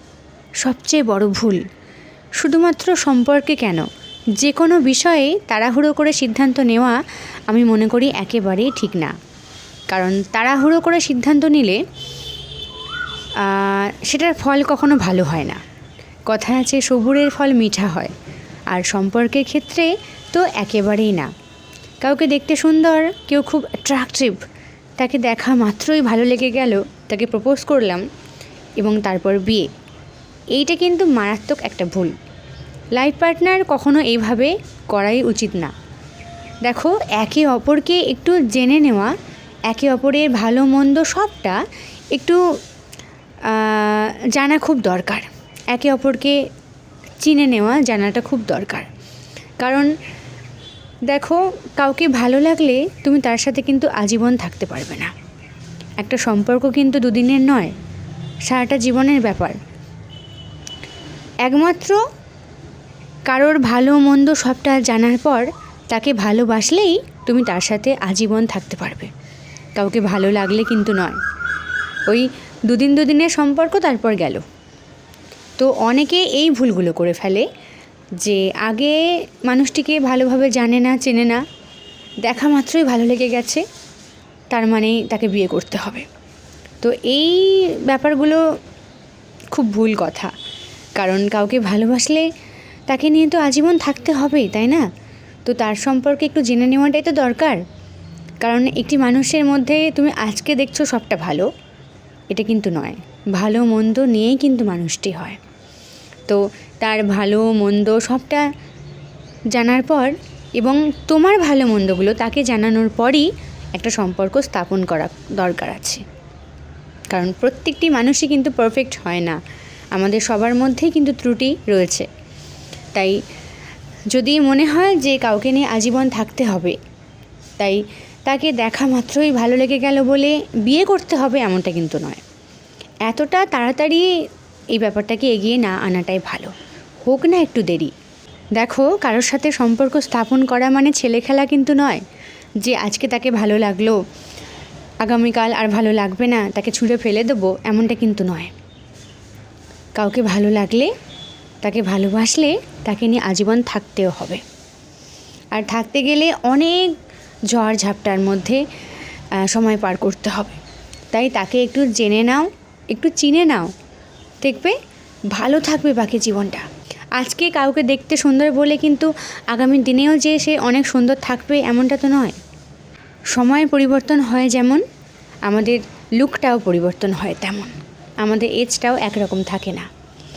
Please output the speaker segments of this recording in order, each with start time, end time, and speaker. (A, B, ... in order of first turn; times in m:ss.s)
0:00.6-0:01.6 A
0:02.4-0:03.9 A
0:04.4-0:07.0 A
0:07.5-0:09.2 A
0:09.9-0:11.8 A
0:13.4-0:15.6 A
0:16.3-0:18.1 A
0:18.7-0:21.3 A
0:22.0-0:24.4 A
0:25.0-0:28.0 A
0:28.8-0:29.7 A
0:30.6-0:32.1 A
0:33.0-0:35.7 A
0:36.7-0:39.1 A
0:39.7-0:41.6 A
0:42.2-0:42.4 A
0:43.5-0:46.4 A
0:47.2-0:48.9 A
0:49.6-0:49.9 A
0:51.1-0:55.1 A
0:56.0-0:57.7 A
0:58.5-0:59.6 A
1:01.4-1:02.0 A
1:03.3-1:09.1 A
1:09.8-1:11.2 A
1:12.1-1:14.4 A
1:15.6-1:17.5 A
1:18.2-1:21.4 A
1:22.2-1:23.6 A
1:24.5-1:26.1 A
1:26.8-1:28.4 A
1:29.5-1:30.3 A
1:31.0-1:32.3 A
1:32.9-1:34.8 A
1:35.5-1:37.6 A
1:38.4-1:41.5 A
1:42.3-1:45.4 A
1:46.3-1:48.5 A
1:49.5-1:56.0 A
1:57.1-1:59.4 A
1:59.9-2:02.1 A
2:04.1-2:06.8 A
2:07.6-2:12.2 A
2:13.1-2:14.1 A
2:14.7-2:17.9 A
2:18.6-2:22.0 A
2:22.6-2:24.0 A
2:25.0-2:28.5 A
2:30.0-2:30.9 A
2:31.6-2:34.4 A
2:35.6-2:37.0 A
2:37.5-2:38.6 A
2:39.5-2:40.6 A
2:41.1-2:43.7 A
2:44.4-2:44.8 A
2:45.3-2:46.7 A
2:47.2-2:52.4 A
2:53.4-2:54.8 A
2:55.5-2:59.9 A